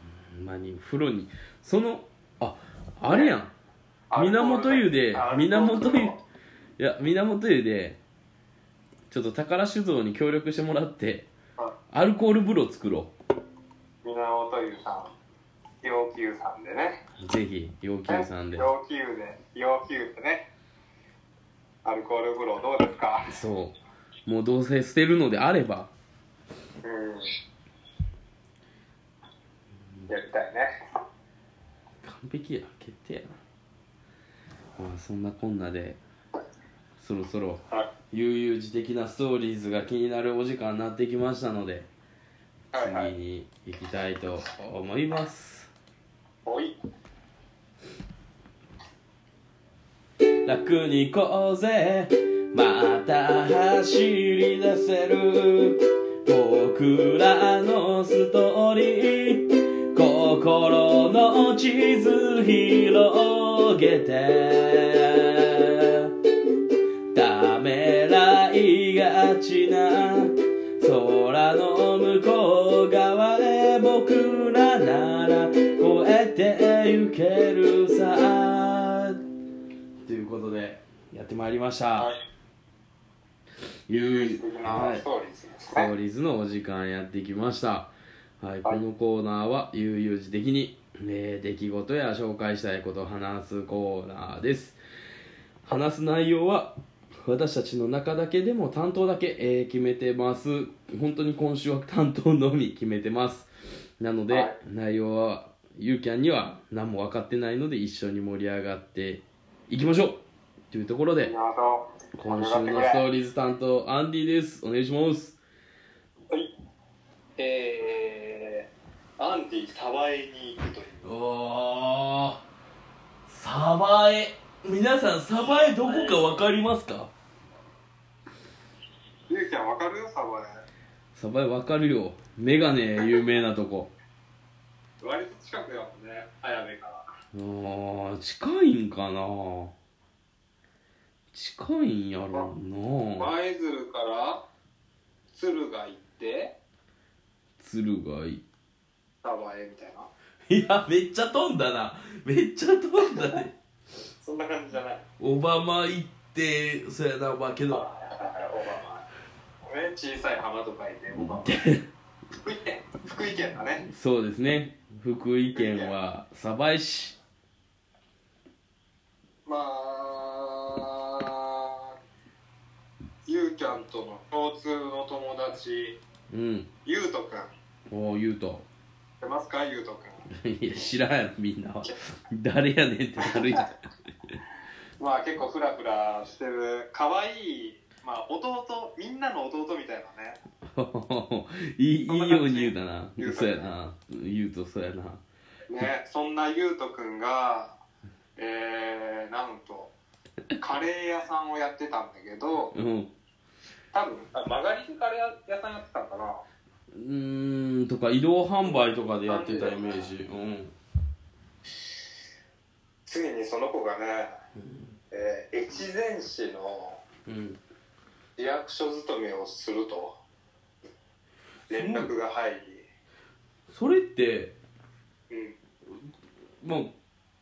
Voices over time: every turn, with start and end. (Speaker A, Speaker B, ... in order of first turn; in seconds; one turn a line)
Speaker A: 0.3-3.5
Speaker B: 3.1-3.3
Speaker B: 4.1-6.2
Speaker A: 4.2-6.2
Speaker A: 6.8-8.0
Speaker A: 9.1-11.3
Speaker A: 11.9-13.1
Speaker B: 14.0-15.1
Speaker B: 15.8-17.0
Speaker A: 17.2-18.7
Speaker B: 18.1-20.5
Speaker B: 21.9-23.3
Speaker A: 23.3-25.9
Speaker B: 26.8-27.3
Speaker B: 30.1-30.7
Speaker A: 32.0-33.4
Speaker A: 34.8-36.0
Speaker A: 37.0-41.9
Speaker B: 42.7-43.1
Speaker A: 42.8-45.7
Speaker B: 46.5-46.7
Speaker A: 50.5-66.2
Speaker A: 67.1-79.2
Speaker A: 80.0-82.1
Speaker A: 83.9-85.0
Speaker B: 83.9-85.9
Speaker A: 85.7-94.8
Speaker A: 95.7-103.5
Speaker A: 104.0-111.3
Speaker B: 104.3-104.5
Speaker B: 111.2-113.0
Speaker A: 112.2-115.4
Speaker B: 117.4-118.7
Speaker B: 119.2-121.1
Speaker A: 121.0-122.4
Speaker A: 123.3-127.1
Speaker B: 125.4-126.4
Speaker B: 129.3-130.6
Speaker A: 131.2-133.9
Speaker B: 135.0-137.1
Speaker A: 137.3-139.7
Speaker A: 141.3-143.3
Speaker B: 143.2-144.4
Speaker B: 145.3-146.5
Speaker A: 147.6-148.4
Speaker B: 149.2-150.1
Speaker A: 150.5-153.5
Speaker B: 154.2-155.0
Speaker A: 155.2-157.8
Speaker B: 157.7-159.1
Speaker B: 159.7-161.7
Speaker A: 161.2-161.8
Speaker B: 162.4-163.8
Speaker A: 163.8-167.2
Speaker B: 165.5-165.9
Speaker B: 169.5-171.9
Speaker B: 173.3-176.0
Speaker A: 176.3-176.7
Speaker B: 176.8-177.5
Speaker A: 177.9-178.7
Speaker B: 179.2-180.3
Speaker A: 180.3-183.7
Speaker B: 185.0-190.4
Speaker A: 190.7-195.2
Speaker B: 192.1-193.7
Speaker B: 195.7-197.8
Speaker B: 198.4-199.9
Speaker B: 200.6-202.8
Speaker A: 202.7-203.1
Speaker B: 203.9-206.4
Speaker A: 206.9-210.7
Speaker B: 208.7-210.1
Speaker B: 213.1-214.3
Speaker B: 215.1-217.0
Speaker A: 217.3-217.6
Speaker B: 218.4-220.2
Speaker B: 221.7-222.8
Speaker A: 221.7-222.1
Speaker A: 223.7-224.6
Speaker B: 225.3-225.6
Speaker A: 226.6-226.9